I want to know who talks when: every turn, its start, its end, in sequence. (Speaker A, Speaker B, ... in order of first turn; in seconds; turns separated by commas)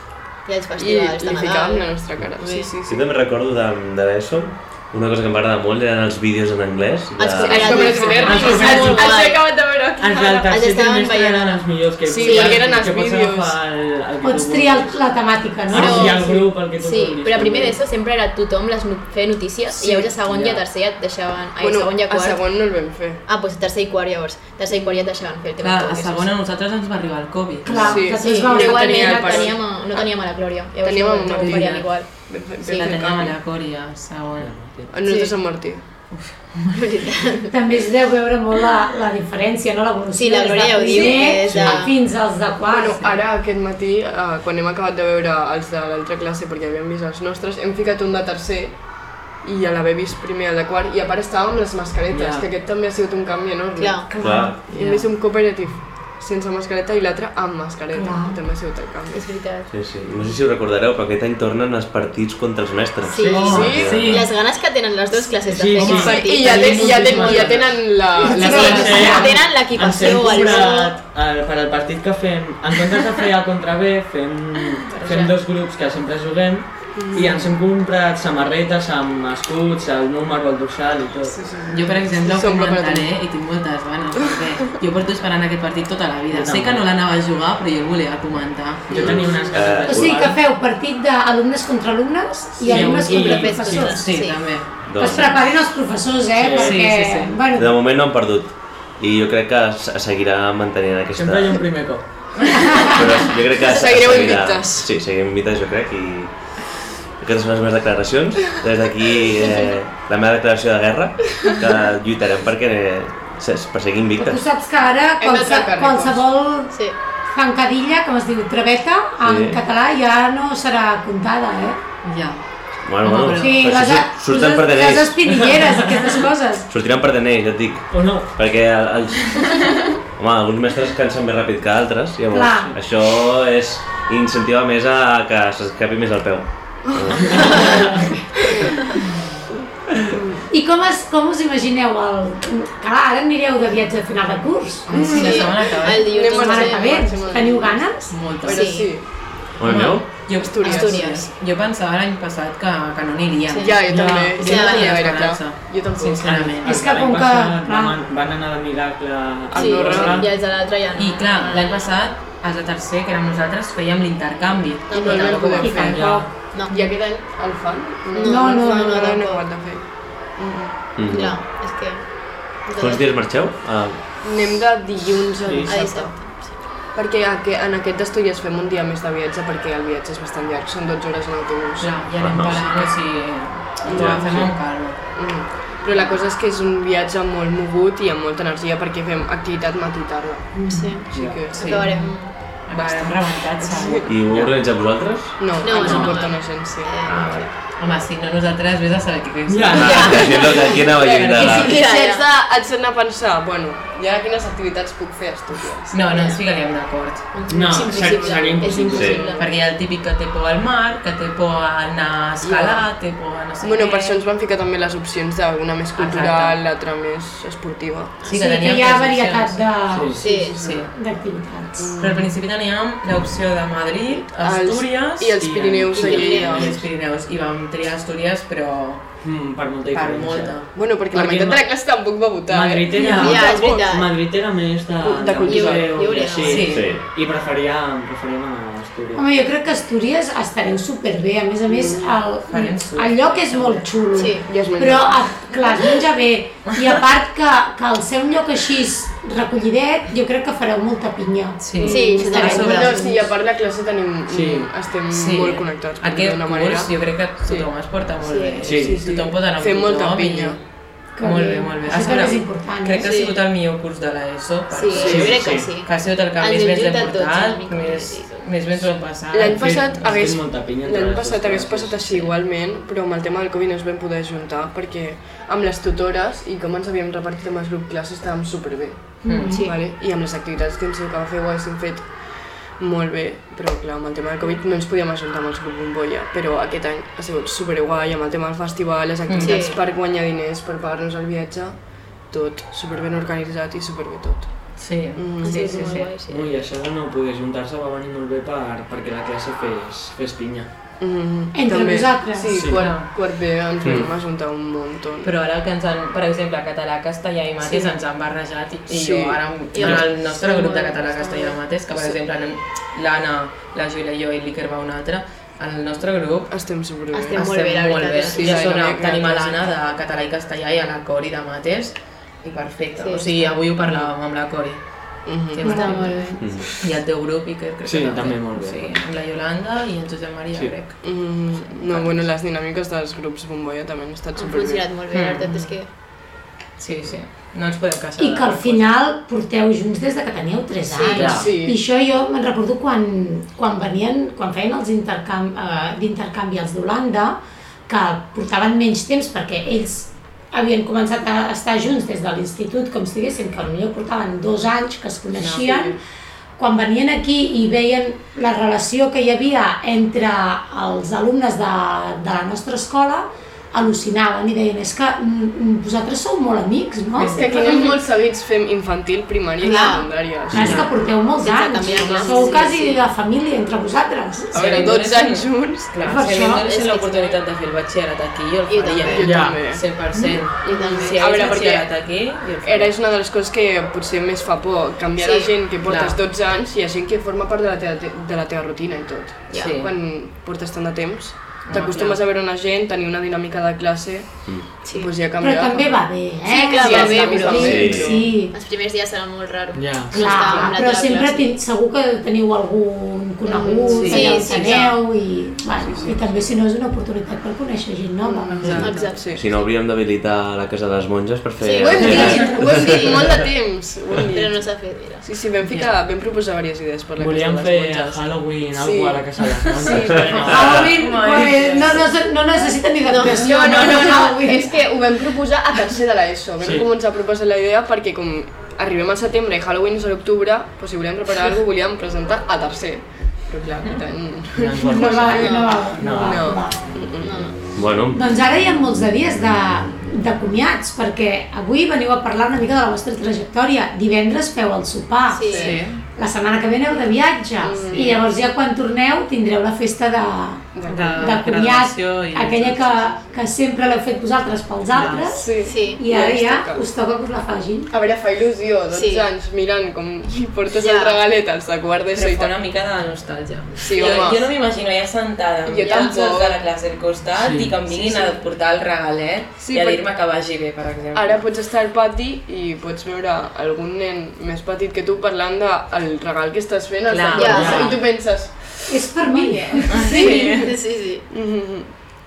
Speaker A: 0.5-2.7, Speaker B: 0.8-3.0, Speaker C: 2.9-8.1, Speaker A: 7.2-9.9, Speaker D: 7.2-9.2, Speaker B: 7.4-10.8, Speaker E: 8.0-8.4, Speaker D: 10.0-15.0, Speaker A: 10.4-12.7, Speaker B: 12.1-13.6, Speaker E: 14.2-16.5, Speaker D: 15.7-17.8, Speaker A: 15.7-26.3, Speaker D: 19.8-20.6, Speaker B: 21.6-23.2, Speaker B: 24.7-25.0, Speaker F: 25.6-27.9, Speaker E: 27.6-29.5, Speaker D: 27.7-28.0, Speaker B: 27.8-29.6, Speaker A: 28.1-32.1, Speaker B: 30.8-33.4, Speaker F: 31.4-34.5, Speaker D: 34.4-34.9, Speaker B: 34.9-35.8, Speaker A: 35.0-35.4, Speaker F: 36.1-36.8, Speaker A: 36.7-37.5, Speaker E: 37.5-43.1, Speaker A: 40.2-41.9, Speaker B: 40.9-41.6, Speaker D: 41.4-41.9, Speaker B: 42.7-59.3, Speaker D: 52.1-52.5, Speaker A: 53.8-54.1, Speaker E: 54.1-54.5, Speaker C: 54.1-54.6, Speaker D: 54.7-55.1, Speaker E: 57.9-58.4, Speaker A: 59.1-59.7, Speaker C: 59.7-64.3, Speaker A: 63.0-67.7, Speaker D: 63.2-64.3, Speaker B: 63.4-64.2, Speaker D: 65.5-81.4, Speaker B: 65.8-69.3, Speaker E: 68.2-69.3, Speaker A: 68.2-70.9, Speaker B: 70.2-70.8, Speaker A: 74.9-75.3, Speaker B: 76.9-77.5, Speaker B: 81.3-83.1, Speaker F: 81.7-89.3, Speaker D: 86.3-86.9, Speaker B: 88.9-89.8, Speaker D: 88.9-90.4, Speaker C: 89.5-90.3, Speaker E: 89.8-94.2, Speaker D: 92.7-94.1, Speaker F: 92.7-93.2, Speaker A: 92.8-94.6, Speaker F: 94.0-94.7, Speaker C: 94.8-95.6, Speaker E: 95.0-97.7, Speaker D: 96.3-97.0, Speaker F: 96.6-97.4, Speaker C: 97.5-101.9, Speaker D: 101.2-102.6, Speaker E: 102.6-103.0, Speaker C: 102.9-106.3, Speaker B: 103.6-104.9, Speaker C: 107.2-114.5, Speaker A: 109.4-109.7, Speaker E: 114.2-116.8, Speaker B: 115.2-116.2, Speaker A: 116.7-117.0, Speaker E: 117.3-121.8, Speaker C: 119.2-119.6, Speaker F: 122.0-122.4, Speaker C: 122.8-125.2, Speaker F: 123.0-123.8, Speaker E: 123.3-126.7, Speaker D: 125.3-126.1, Speaker C: 126.7-137.9, Speaker D: 127.9-128.4, Speaker E: 132.3-132.8, Speaker B: 136.9-137.7, Speaker B: 140.1-140.5, Speaker E: 140.5-145.1, Speaker B: 144.9-149.1, Speaker F: 144.9-146.2, Speaker D: 145.0-145.3, Speaker A: 145.1-147.5, Speaker E: 146.2-148.4, Speaker F: 148.1-148.9, Speaker A: 148.5-148.9, Speaker C: 149.6-150.3, Speaker F: 149.6-156.8, Speaker B: 150.3-151.2, Speaker A: 150.6-151.3, Speaker A: 153.5-153.8, Speaker B: 153.6-156.6, Speaker A: 154.4-155.1, Speaker D: 156.2-160.3, Speaker E: 156.6-158.0, Speaker B: 159.5-160.3, Speaker A: 159.5-161.9, Speaker F: 159.9-166.0, Speaker A: 164.9-165.6, Speaker B: 164.9-166.1, Speaker E: 165.6-166.3, Speaker D: 165.8-166.3, Speaker A: 166.5-167.2, Speaker B: 166.7-170.8, Speaker A: 168.1-169.5, Speaker E: 168.2-169.1, Speaker C: 171.0-171.4, Speaker A: 171.1-173.0, Speaker C: 172.8-174.1, Speaker B: 174.2-176.4, Speaker C: 175.4-175.7, Speaker A: 175.7-176.7, Speaker B: 176.9-182.1, Speaker F: 181.8-185.3, Speaker C: 182.2-182.7, Speaker B: 183.8-184.5, Speaker C: 183.9-184.2, Speaker D: 184.3-184.5, Speaker B: 185.1-192.0, Speaker E: 190.7-191.0, Speaker A: 190.7-192.4, Speaker D: 191.1-191.4, Speaker F: 191.5-194.1, Speaker B: 192.7-194.2, Speaker C: 194.1-195.6, Speaker D: 194.2-194.5, Speaker B: 195.4-197.0, Speaker A: 195.6-197.5, Speaker F: 195.7-196.2, Speaker D: 195.8-196.1, Speaker C: 197.0-197.5, Speaker F: 197.8-200.2, Speaker D: 199.5-201.7, Speaker C: 199.7-201.8, Speaker A: 199.8-200.3, Speaker B: 200.3-206.1, Speaker A: 201.6-202.3, Speaker F: 205.9-207.3, Speaker A: 206.1-206.4, Speaker A: 207.3-209.5, Speaker D: 207.5-209.2, Speaker B: 207.7-209.4, Speaker C: 208.9-209.3, Speaker F: 209.3-214.2, Speaker B: 212.4-212.8, Speaker B: 213.6-218.2, Speaker F: 215.9-216.6, Speaker F: 218.2-219.7, Speaker E: 218.3-222.0, Speaker D: 219.9-220.4, Speaker B: 220.2-220.9, Speaker A: 220.2-220.6, Speaker F: 220.3-220.9, Speaker B: 221.8-222.3, Speaker F: 222.0-225.4, Speaker B: 224.1-226.8, Speaker D: 225.4-226.8, Speaker F: 225.9-229.1, Speaker A: 226.0-226.5, Speaker D: 229.2-231.6, Speaker F: 229.9-231.6, Speaker B: 230.7-234.0, Speaker D: 232.5-239.2, Speaker E: 233.0-233.2, Speaker A: 233.1-234.1, Speaker B: 235.0-236.4, Speaker A: 235.4-236.7, Speaker F: 236.4-236.9, Speaker C: 236.7-237.1, Speaker E: 239.1-253.3, Speaker B: 241.8-242.0, Speaker F: 242.5-243.9, Speaker A: 244.1-244.5, Speaker B: 244.4-245.4, Speaker F: 251.6-253.0, Speaker B: 251.8-257.7, Speaker A: 251.8-253.3, Speaker D: 254.3-254.7, Speaker F: 255.1-260.6, Speaker A: 258.2-258.7, Speaker D: 258.6-259.0, Speaker B: 258.7-260.6, Speaker E: 261.1-263.1, Speaker F: 261.2-269.7, Speaker A: 262.1-262.4, Speaker A: 263.0-263.4, Speaker A: 264.7-268.7, Speaker D: 264.9-265.7, Speaker B: 269.3-295.9, Speaker D: 269.4-272.4, Speaker E: 279.2-279.7, Speaker F: 279.2-279.6, Speaker F: 289.3-289.6, Speaker A: 289.4-289.8, Speaker F: 294.8-296.1, Speaker A: 295.4-296.7, Speaker D: 296.2-300.7, Speaker B: 301.0-305.3, Speaker E: 301.5-302.7, Speaker D: 302.5-302.9, Speaker F: 302.7-303.1, Speaker C: 303.8-304.1, Speaker F: 305.2-316.5, Speaker B: 308.9-309.4, Speaker A: 309.7-311.6, Speaker D: 309.8-310.1, Speaker B: 311.9-312.2, Speaker B: 316.5-317.5, Speaker A: 317.1-318.7, Speaker F: 317.3-332.2, Speaker B: 318.3-319.8, Speaker A: 323.0-323.6, Speaker B: 323.8-324.1, Speaker B: 325.3-326.1, Speaker E: 325.6-326.1, Speaker A: 325.6-326.6, Speaker C: 326.4-326.7, Speaker D: 327.9-329.0, Speaker D: 330.6-330.9, Speaker B: 331.0-334.9, Speaker A: 334.4-335.9, Speaker F: 335.1-335.9, Speaker F: 336.8-338.9, Speaker E: 338.2-356.0, Speaker A: 340.9-341.2, Speaker D: 341.2-341.6, Speaker B: 341.2-341.8, Speaker F: 355.4-355.7, Speaker B: 355.5-356.0, Speaker E: 356.6-368.0, Speaker F: 367.1-367.5, Speaker B: 367.3-370.9, Speaker A: 369.6-370.1, Speaker E: 369.6-374.9, Speaker C: 370.5-370.8, Speaker F: 370.6-370.9, Speaker A: 371.3-373.0, Speaker B: 372.1-372.5, Speaker B: 374.5-376.0, Speaker F: 374.5-382.9, Speaker E: 376.0-376.6, Speaker A: 376.3-377.4, Speaker A: 378.7-379.3, Speaker B: 379.1-380.1, Speaker D: 379.2-379.7, Speaker E: 380.1-380.4, Speaker B: 380.6-382.0, Speaker A: 380.6-381.8, Speaker B: 382.6-396.2, Speaker A: 385.2-385.6, Speaker F: 385.8-386.2, Speaker A: 389.5-389.8, Speaker F: 389.5-389.9, Speaker F: 391.7-392.2, Speaker C: 394.4-394.8, Speaker A: 394.8-395.1, Speaker E: 395.4-398.6, Speaker A: 396.5-401.6, Speaker B: 396.8-398.3, Speaker C: 397.5-398.2, Speaker D: 399.8-400.2, Speaker E: 400.1-408.9, Speaker B: 403.5-404.9, Speaker A: 403.5-405.0, Speaker F: 403.9-404.4, Speaker B: 405.8-406.6, Speaker D: 408.6-408.9, Speaker F: 408.6-409.0, Speaker B: 408.6-409.5, Speaker A: 408.8-409.5, Speaker C: 409.3-413.2, Speaker A: 411.6-413.3, Speaker B: 411.9-420.7, Speaker D: 412.0-412.6, Speaker E: 412.0-413.0, Speaker A: 414.3-415.3, Speaker F: 415.7-415.9, Speaker D: 417.2-421.0, Speaker E: 419.9-424.8, Speaker F: 420.3-422.0, Speaker A: 423.1-425.3, Speaker B: 423.2-437.6, Speaker D: 426.6-426.9, Speaker D: 434.5-436.5, Speaker E: 434.9-436.8, Speaker A: 435.4-435.7, Speaker A: 437.2-437.5, Speaker C: 437.8-438.2, Speaker E: 438.1-457.9, Speaker A: 445.3-445.8, Speaker B: 445.5-445.8, Speaker F: 445.6-446.0, Speaker B: 447.6-448.2, Speaker F: 447.9-448.2, Speaker B: 450.7-451.4, Speaker F: 450.9-453.0, Speaker D: 454.9-455.4, Speaker B: 455.3-456.8, Speaker A: 455.6-456.0, Speaker B: 457.9-462.6, Speaker A: 458.9-459.3, Speaker A: 460.8-461.2, Speaker F: 462.1-471.5, Speaker B: 463.8-464.5, Speaker B: 465.6-466.6, Speaker A: 465.8-466.1, Speaker D: 467.4-467.8, Speaker B: 467.9-468.4, Speaker B: 469.6-470.1, Speaker B: 471.1-480.7, Speaker F: 477.1-477.9, Speaker A: 477.4-478.0, Speaker D: 477.4-478.0, Speaker E: 478.9-480.4, Speaker F: 479.9-480.7, Speaker A: 480.1-481.2, Speaker B: 481.3-481.9